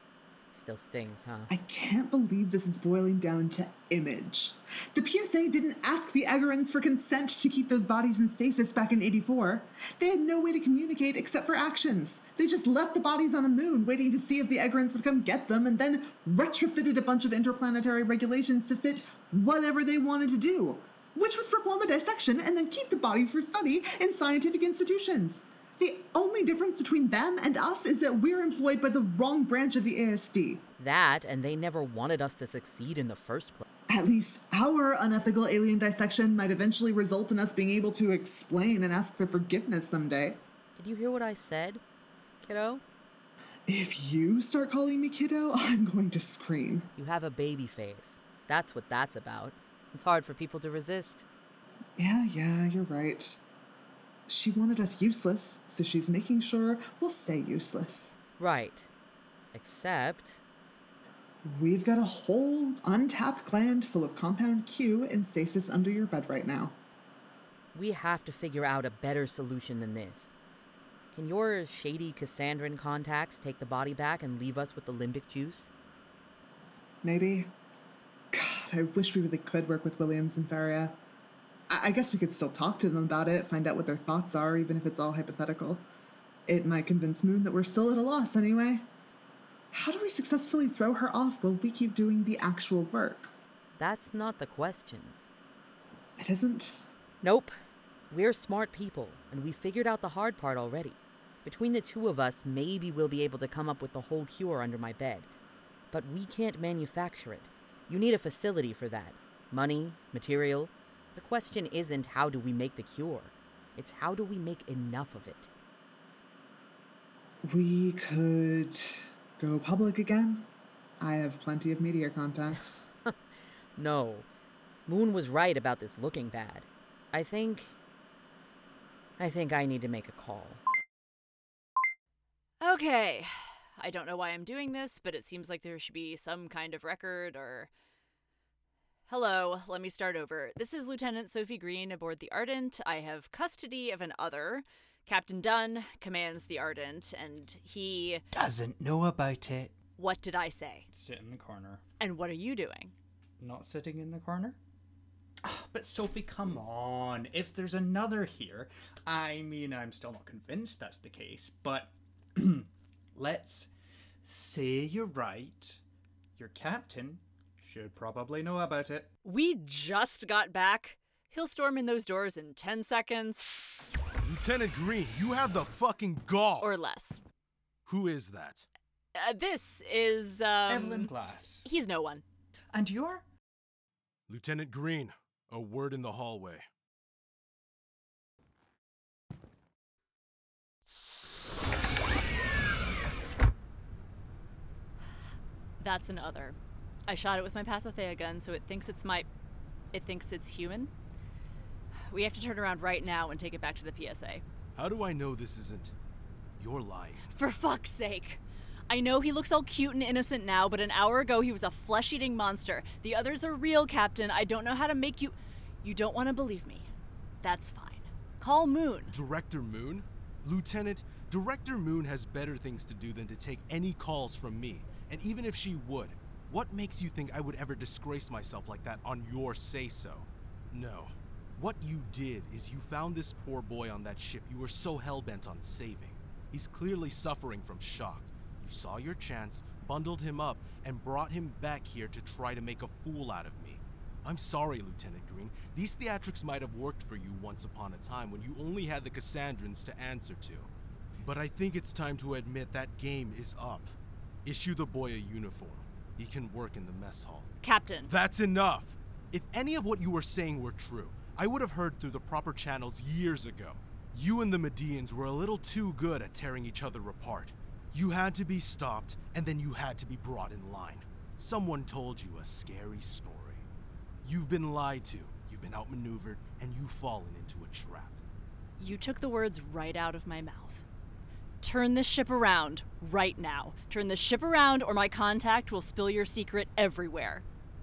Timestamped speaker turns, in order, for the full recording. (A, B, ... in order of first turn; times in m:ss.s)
0:00.5-0:01.5 A
0:01.5-0:30.6 B
0:30.8-0:33.7 A
0:33.9-0:40.4 B
0:40.8-0:41.8 A
0:42.4-0:42.8 A
0:43.7-0:46.9 B
0:47.0-0:51.2 A
0:52.0-0:53.4 B
0:54.3-0:58.2 B
0:58.4-0:58.9 A
0:59.5-1:00.4 A
1:01.4-1:06.8 B
1:07.7-1:10.3 A
1:11.1-1:15.7 A
1:17.0-1:17.5 B
1:18.3-1:21.0 B
1:21.7-1:25.8 B
1:26.5-1:28.9 B
1:29.7-1:33.3 B
1:33.8-1:35.2 A
1:36.2-1:36.8 B
1:37.2-1:37.6 A
1:38.1-1:45.3 A
1:45.9-1:55.5 A
1:57.4-2:00.5 B
2:01.0-2:02.9 B
2:02.5-2:03.2 A
2:03.8-2:04.3 A
2:04.9-2:07.8 A
2:09.2-2:10.6 A
2:12.6-2:17.7 C
2:19.1-2:28.2 C
2:28.3-2:29.7 D
2:30.0-2:30.9 C
2:30.9-2:31.8 D
2:32.0-2:32.9 C
2:33.4-2:34.6 D
2:35.4-2:43.7 D
2:44.2-2:45.8 D
2:46.4-2:49.1 D
2:49.2-2:53.6 C
2:54.2-2:56.7 E
2:56.6-2:57.2 C
2:57.9-2:58.7 E
2:59.2-3:02.2 C
3:00.7-3:01.7 D
3:02.7-3:03.2 D
3:04.3-3:06.7 E
3:15.8-3:19.3 C
3:19.9-3:20.9 C
3:22.1-3:24.4 C
3:24.8-3:26.0 E
3:26.6-3:27.3 E
3:27.3-3:36.9 C
3:37.4-3:39.1 C
3:39.1-4:10.7 E
4:11.2-4:17.5 E
4:17.6-4:18.1 C
4:18.0-4:33.7 E
4:34.2-4:38.2 E
4:38.8-4:40.9 C
4:41.6-4:47.4 C